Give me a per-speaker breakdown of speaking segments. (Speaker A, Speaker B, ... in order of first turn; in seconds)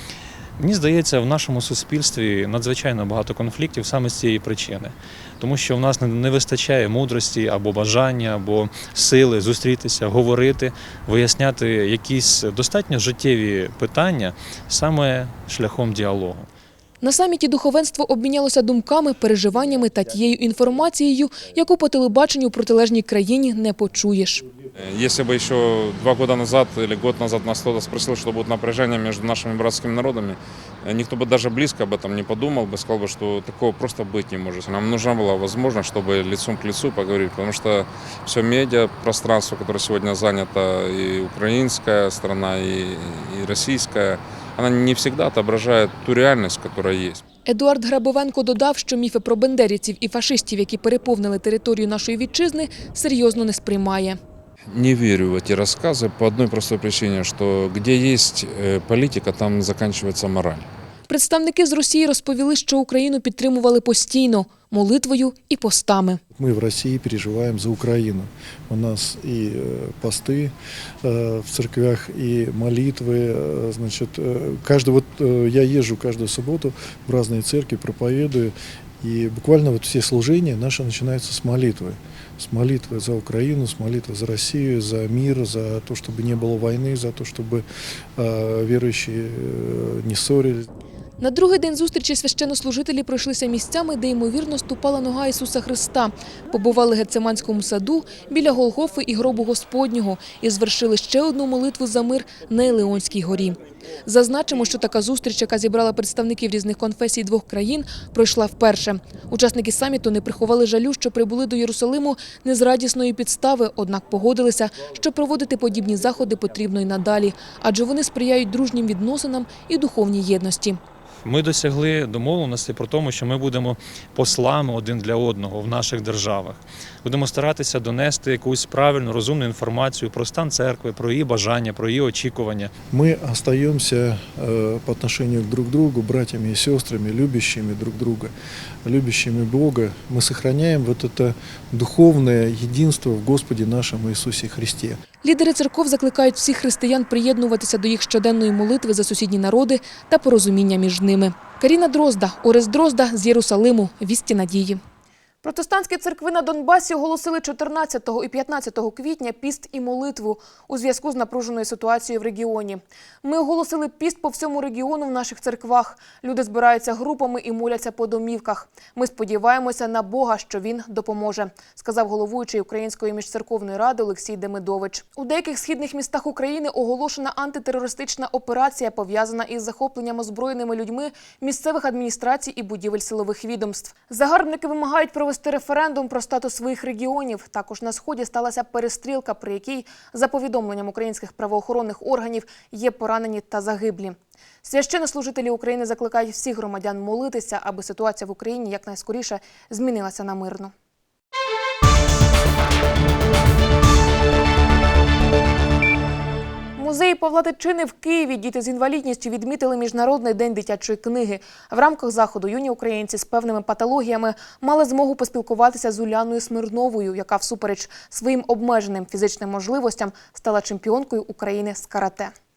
Speaker A: 0.6-16.5, 121.2-132.7
Speaker B: 17.0-24.4, 47.5-54.2, 61.1-66.2, 91.2-120.8, 145.2-154.8, 155.4-200.7, 206.8-222.3
Speaker C: 24.8-47.2, 54.7-60.6
Speaker D: 66.3-87.6, 88.2-90.7, 132.9-138.3, 138.8-145.0